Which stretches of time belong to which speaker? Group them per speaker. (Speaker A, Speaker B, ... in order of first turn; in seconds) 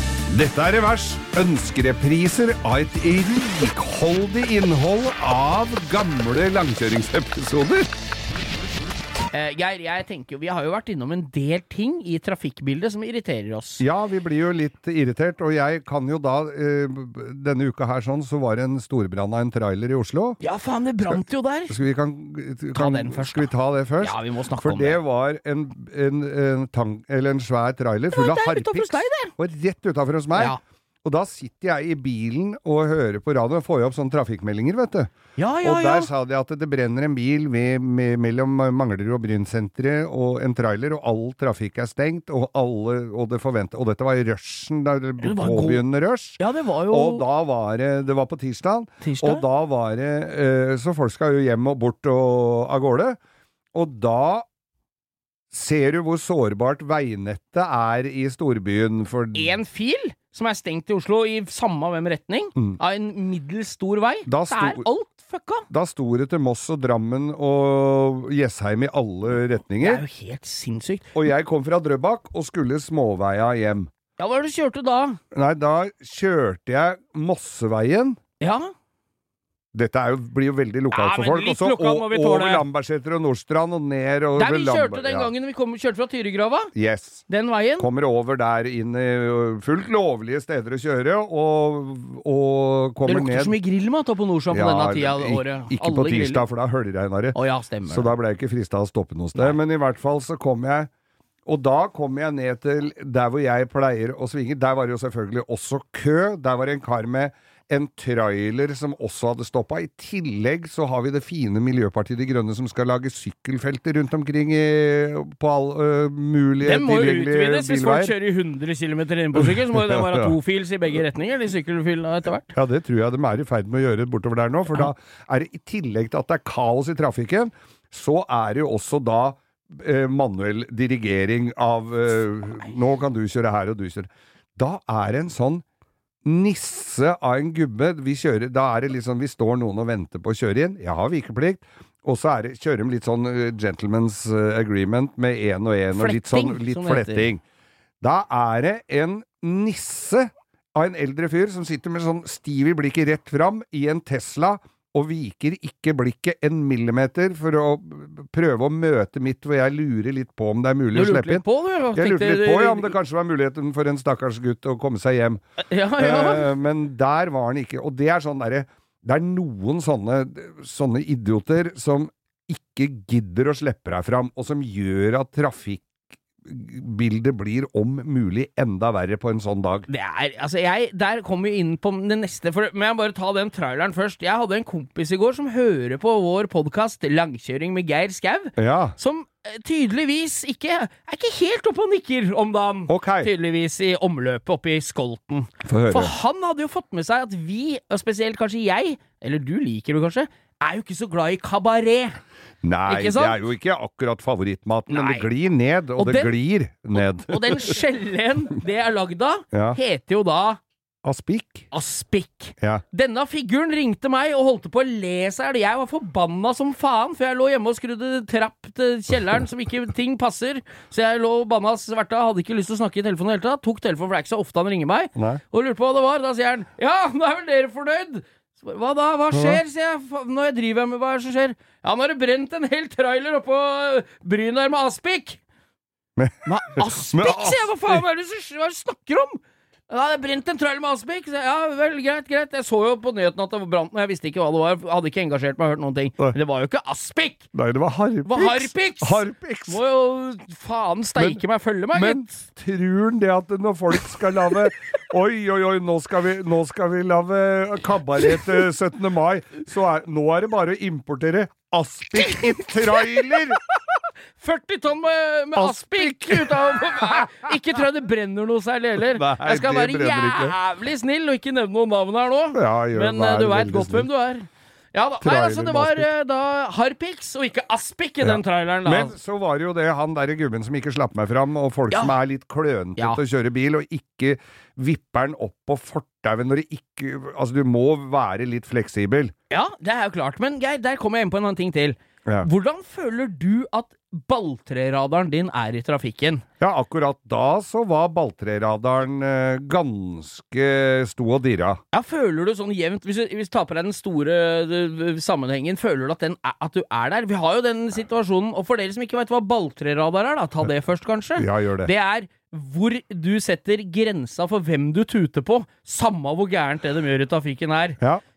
Speaker A: 0.3-7.9, 13.8-20.4, 21.1-35.1, 35.6-46.4, 46.9-53.2, 53.7-54.5, 55.5-59.6, 64.3-64.9, 65.7-70.0, 71.1-73.9, 75.3-78.2, 79.7-85.3, 86.7-87.2, 87.8-93.5, 94.5-97.4, 97.9-100.9, 101.5-118.1, 119.3-120.3, 122.5-135.6, 136.2-147.4, 148.0-165.4, 166.0-175.9, 176.4-179.9, 188.6-188.9, 192.9-193.3, 195.6-196.1, 202.6-207.8, 209.5-209.8, 211.0-211.7, 225.1-225.4, 229.3-229.6, 236.2-236.5, 237.0-238.0, 247.5-249.8, 251.2-251.4, 251.9-263.6, 265.5-266.8, 269.0-270.5, 272.5-274.1, 275.2-276.1, 278.2-289.3, 296.6-301.8, 311.4-311.9
Speaker B: 9.3-13.8, 20.4-21.7, 22.7-25.0, 28.1-29.3, 35.4-36.1, 45.2-45.8, 46.4-47.2, 49.0-49.4, 59.3-65.6, 69.8-71.1, 74.2-75.2, 78.4-78.7, 80.9-82.7, 84.4-86.7, 87.3-87.9, 93.0-96.4, 97.3-98.1, 116.6-122.5, 145.9-147.3, 160.9-162.9, 165.7-166.5, 179.9-202.2, 202.9-203.4, 204.9-205.3, 206.0-206.3, 207.0-210.6, 211.7-235.4, 236.4-247.4, 248.3-252.4, 262.9-279.1, 289.5-296.4, 301.9-318.0